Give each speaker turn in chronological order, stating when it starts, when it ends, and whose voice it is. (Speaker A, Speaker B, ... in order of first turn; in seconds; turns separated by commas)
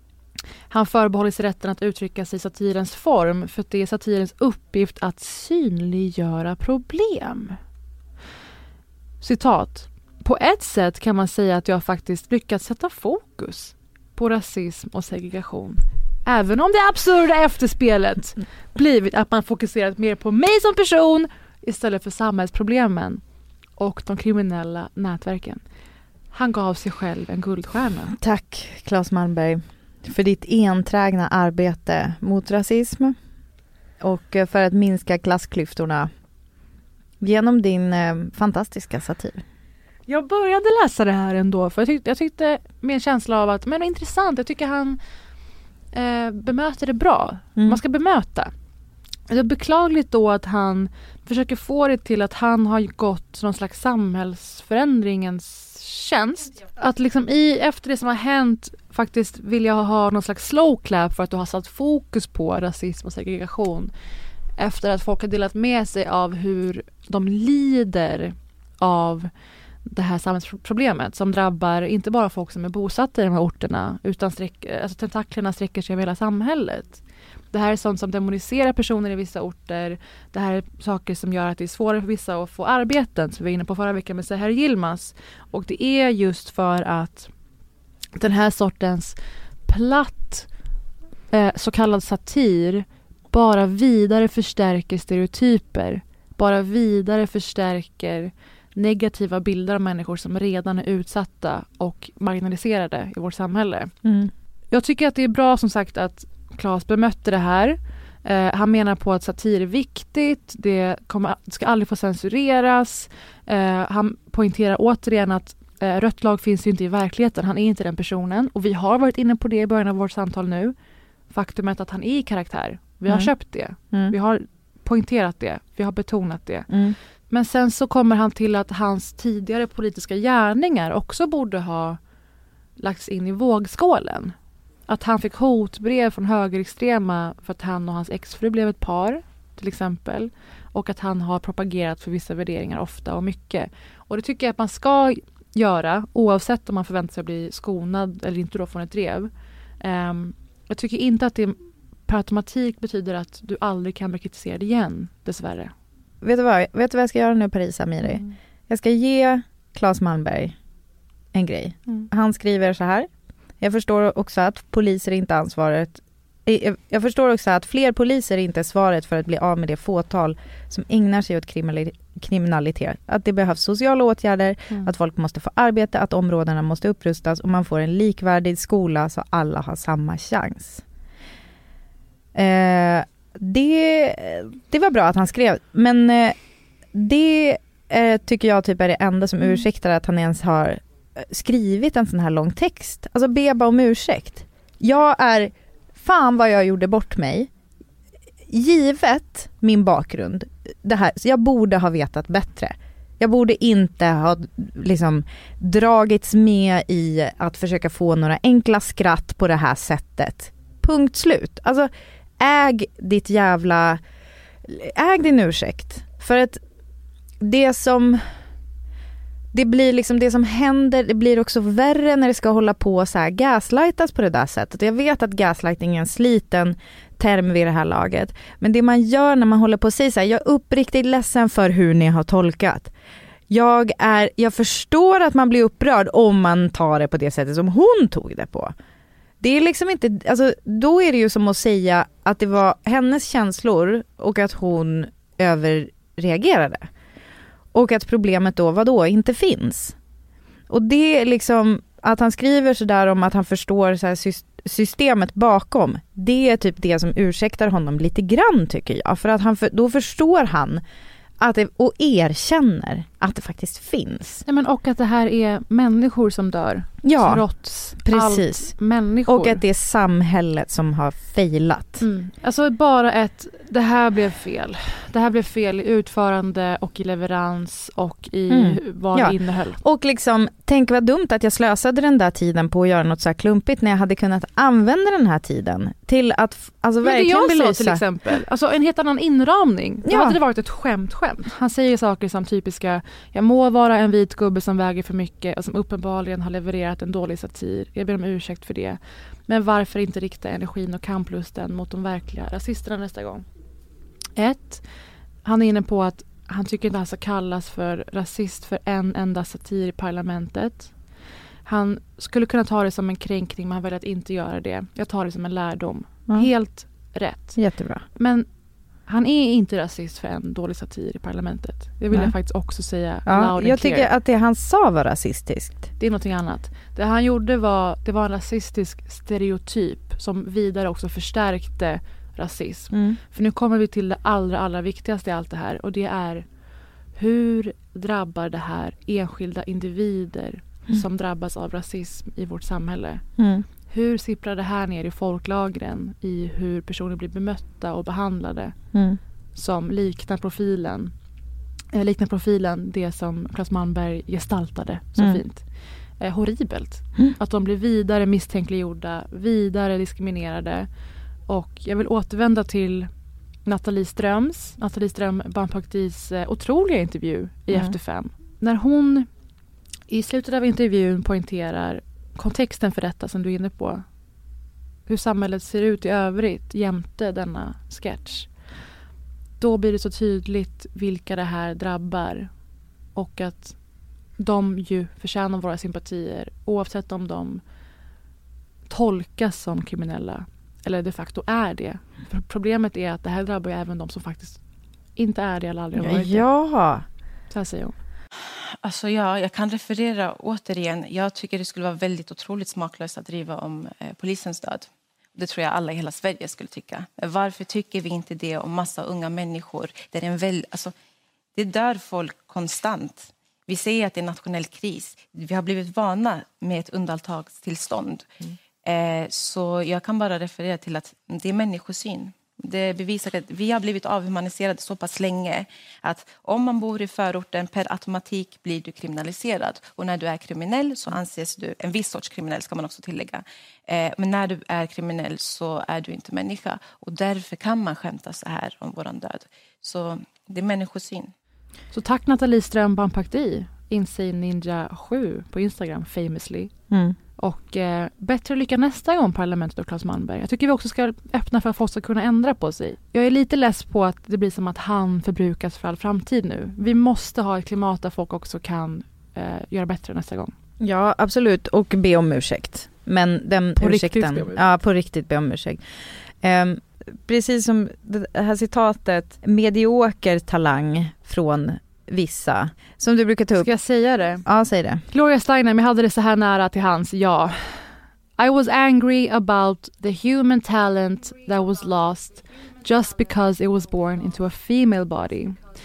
Speaker A: 0.7-7.6, Speaker A: 9.2-23.2, Speaker A: 23.8-25.6, Speaker A: 26.3-28.1, Speaker B: 28.2-33.2, Speaker B: 34.0-36.1, Speaker B: 37.2-39.4, Speaker A: 40.1-45.0, Speaker A: 45.9-48.5, Speaker A: 49.3-63.9, Speaker A: 64.6-69.3, Speaker A: 69.9-77.0, Speaker A: 77.5-87.3, Speaker A: 88.2-90.5, Speaker A: 91.3-103.9, Speaker B: 104.0-104.3, Speaker A: 104.7-120.8, Speaker A: 121.3-126.7, Speaker B: 126.7-127.0, Speaker A: 127.3-132.0, Speaker A: 132.8-134.3, Speaker A: 134.9-155.7, Speaker B: 156.2-160.6, Speaker A: 158.0-158.3, Speaker B: 161.3-163.1, Speaker B: 163.6-180.8, Speaker B: 182.3-186.4, Speaker B: 186.9-197.5, Speaker B: 198.5-214.0, Speaker B: 214.7-216.6, Speaker B: 217.4-218.2, Speaker B: 219.5-232.9, Speaker B: 233.5-238.7, Speaker B: 239.4-246.9, Speaker B: 247.7-250.0, Speaker B: 250.7-260.8, Speaker B: 261.4-264.4, Speaker A: 264.5-269.6, Speaker B: 267.0-267.5, Speaker B: 268.0-268.7, Speaker B: 269.3-272.0, Speaker A: 272.0-279.8, Speaker B: 278.5-288.0, Speaker A: 287.0-303.4, Speaker B: 290.1-290.4, Speaker A: 304.4-304.8, Speaker A: 305.4-310.9, Speaker A: 311.7-317.6, Speaker B: 317.6-318.1, Speaker A: 318.2-318.5, Speaker A: 319.1-324.1, Speaker B: 323.3-325.9, Speaker A: 326.0-336.4, Speaker B: 332.9-333.2, Speaker A: 337.2-343.2, Speaker B: 343.4-343.6, Speaker A: 343.9-348.8, Speaker B: 348.9-349.2, Speaker A: 349.6-351.1, Speaker A: 351.9-355.6, Speaker A: 356.2-360.9, Speaker A: 361.5-363.1, Speaker A: 363.7-369.3, Speaker A: 370.1-374.0, Speaker A: 375.1-378.5, Speaker A: 379.6-382.5, Speaker A: 383.1-383.8, Speaker A: 384.4-387.6, Speaker A: 388.9-394.6, Speaker A: 395.2-396.4, Speaker B: 396.0-397.1, Speaker A: 397.5-397.9, Speaker C: 398.8-410.9, Speaker C: 411.6-418.3, Speaker C: 418.8-441.3, Speaker A: 441.9-446.7, Speaker B: 446.9-447.2, Speaker A: 447.4-460.5, Speaker B: 460.8-465.8, Speaker A: 463.8-464.6, Speaker B: 466.4-473.7, Speaker A: 473.6-474.4, Speaker B: 474.4-475.0, Speaker A: 475.1-477.8, Speaker A: 478.4-485.6